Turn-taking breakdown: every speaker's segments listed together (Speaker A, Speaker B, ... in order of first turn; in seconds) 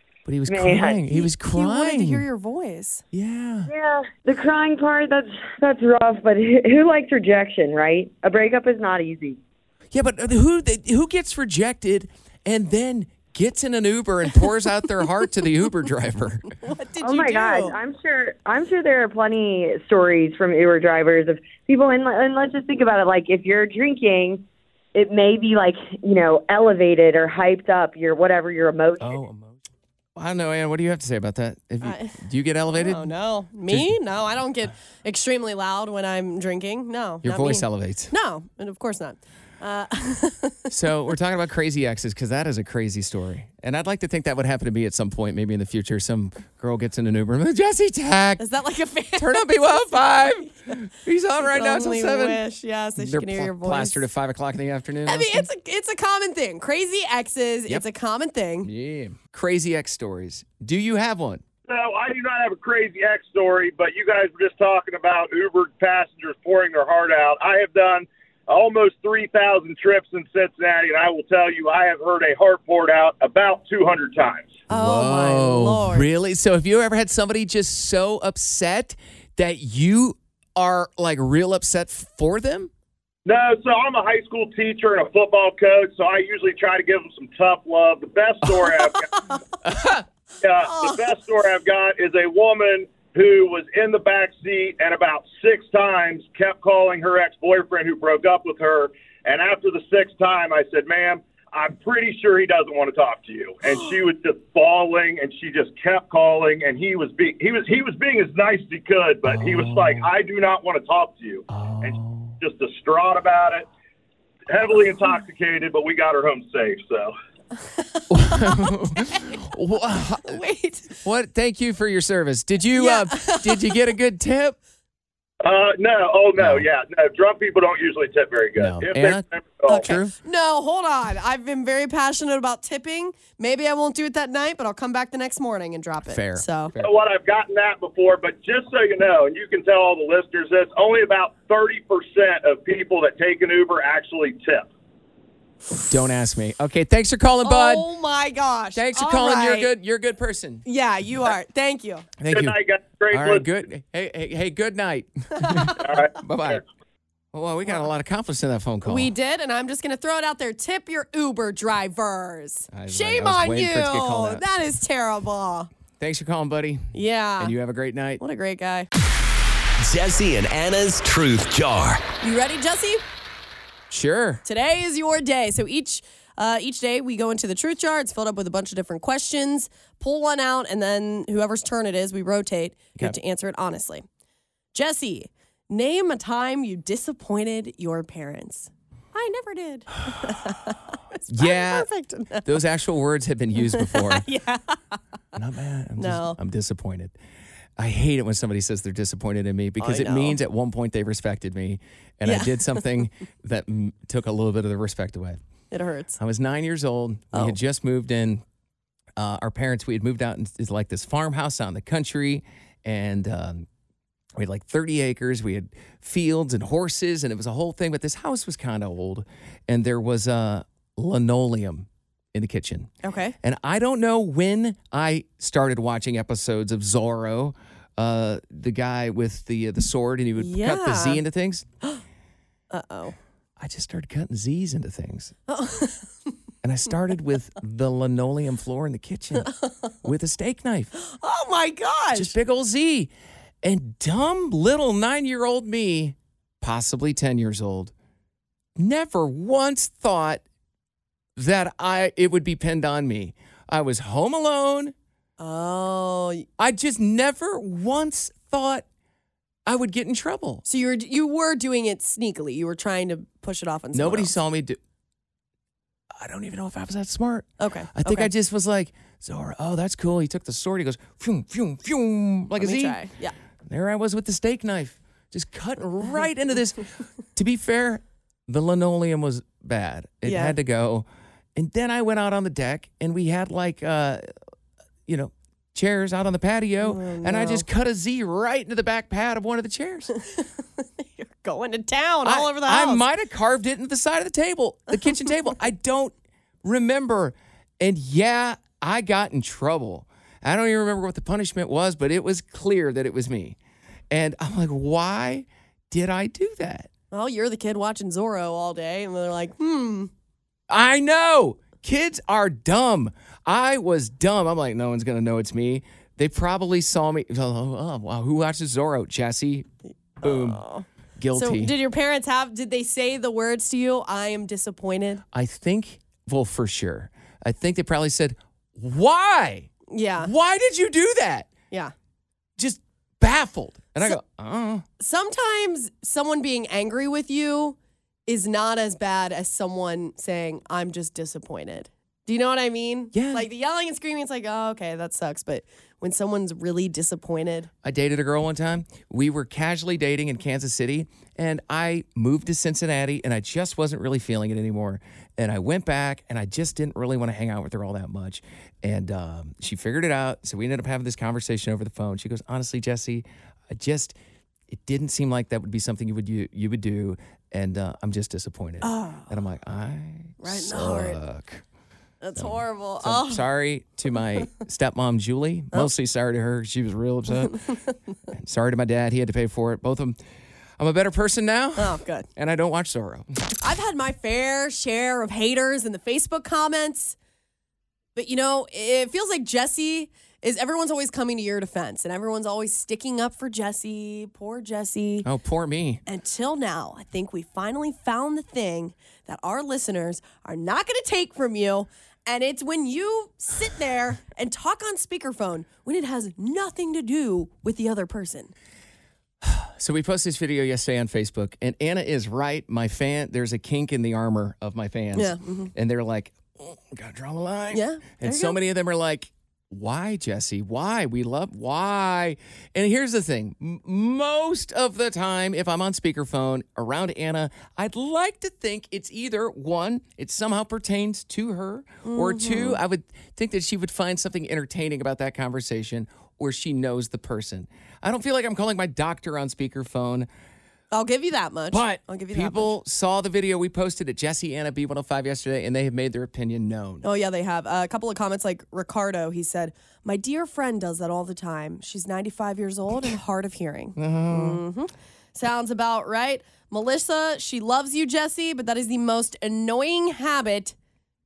Speaker A: 0.3-2.2, 3.1-3.7, 9.9-16.6, 29.0-29.6, 30.2-33.1, 33.7-34.0, 37.2-38.1, 40.7-48.5, 49.2-52.4, 53.0-55.5, 58.6-61.4, 74.7-82.7, 89.6-90.0, 109.2-110.1, 111.5-112.4, 118.1-120.4, 121.0-124.6, 126.4-126.7, 128.6-130.2, 136.1-136.9, 145.9-147.9, 148.7-150.6, 152.2-152.6, 153.1-156.6, 157.3-159.1, 162.7-164.4, 166.0-168.2, 173.9-174.4, 191.3-191.9, 192.4-194.3, 195.3-197.2, 197.8-205.4, 206.2-208.4, 209.2-213.7, 214.4-231.7, 233.6-235.3, 236.6-239.5, 240.0-240.9, 242.1-243.1, 243.6-247.9, 248.8-250.4, 251.4-254.9, 256.6-258.9, 259.7-260.6, 263.9-264.8, 266.1-273.0, 273.7-284.2, 285.1-290.1, 292.2-303.6, 304.1-306.9, 310.7-319.7, 320.2-320.6, 321.2-321.7, 325.3-331.5, 332.6-334.9, 343.1-343.5, 347.8-364.2, 364.7-371.6, 372.4-377.6, 378.3-380.2, 380.8-383.4, 395.2-396.0, 409.4-440.3, 441.7-447.1, 454.0-454.6
Speaker B: 0.5-1.0, 3.7-9.4, 17.0-24.4, 24.9-29.2
Speaker C: 1.1-3.0, 16.6-17.8, 31.8-32.2, 32.7-40.7, 48.4-50.7, 51.4-54.0, 55.1-58.7, 74.7-76.1, 90.6-91.0, 117.6-119.4, 120.2-121.0, 122.7-123.8, 129.7-136.7, 147.4-149.7, 150.7-152.1, 155.4-155.8, 158.9-165.7, 166.9-167.5, 168.2-168.9, 172.2-173.0, 174.5-184.1, 184.7-192.6, 193.6-195.0, 196.0-196.4, 199.8-200.4, 202.2-202.9, 205.7-206.2, 223.0-223.4, 230.4-231.2, 232.7-233.2, 235.5-236.3, 239.4-239.7, 241.0-242.3, 255.4-256.5, 260.7-264.3, 267.6-268.3, 272.6-273.4, 280.2-280.6, 286.8-287.6, 290.2-293.0, 307.1-310.1, 320.2-325.2, 329.9-330.3, 335.0-347.7, 368.8-369.4, 370.4-371.2, 372.2-373.4, 381.8-382.3, 383.6-387.2, 388.2-395.3, 396.1-408.5, 415.1-415.7, 417.7-418.6, 432.1-432.8, 440.9-442.7, 447.0-460.8
Speaker D: 61.7-74.6, 83.3-89.2, 90.4-113.7, 114.5-117.1, 125.4-129.9, 136.8-144.7, 152.3-153.5, 155.8-156.6
Speaker E: 169.8-172.0